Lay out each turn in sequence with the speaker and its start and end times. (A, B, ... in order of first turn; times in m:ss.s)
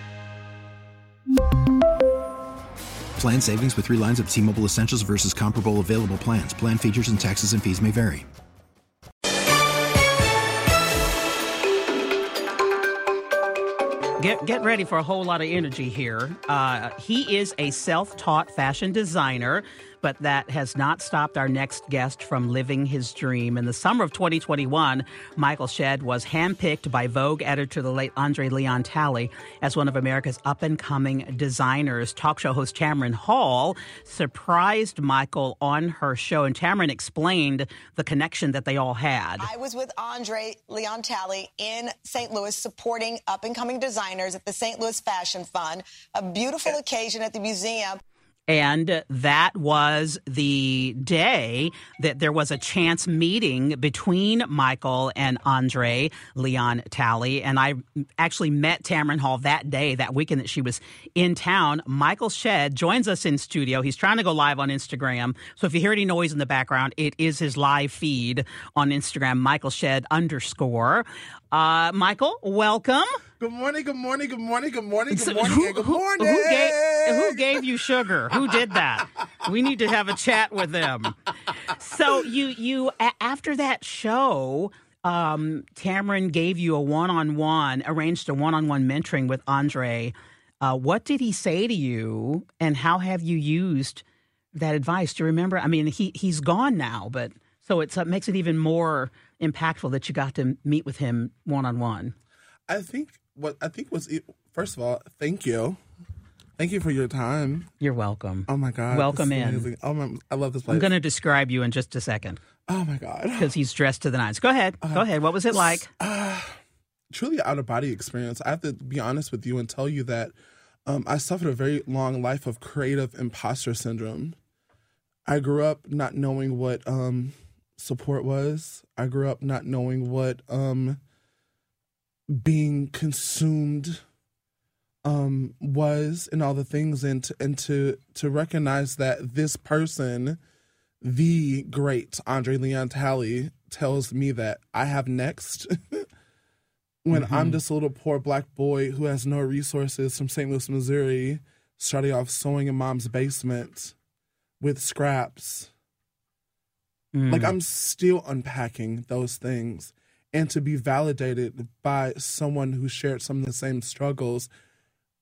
0:03.2-0:08.2 A
0:14.2-0:39.4 B
0:39.4-0:48.0 C
0:48.5-1:13.1 B
1:13.4-1:17.6 D
1:15.1-1:21.2 B
1:21.7-1:42.1 B
1:42.7-1:45.8 D
1:46.6-1:47.7 D
1:47.8-1:49.7 B
1:48.5-1:50.9 D
1:50.7-1:52.4 B
1:52.7-1:53.5 D
1:53.4-1:55.9 B
1:54.8-1:56.6 D
1:57.1-2:00.3 D
2:00.9-2:04.4 D
2:05.3-2:11.0 D
2:12.3-2:14.0 D
2:15.0-2:20.4 D
2:21.0-2:26.0 D
2:27.0-2:33.9 D
2:27.1-2:27.6 B
2:34.6-2:35.7 D
2:37.1-2:37.5 B
2:37.3-2:44.5 D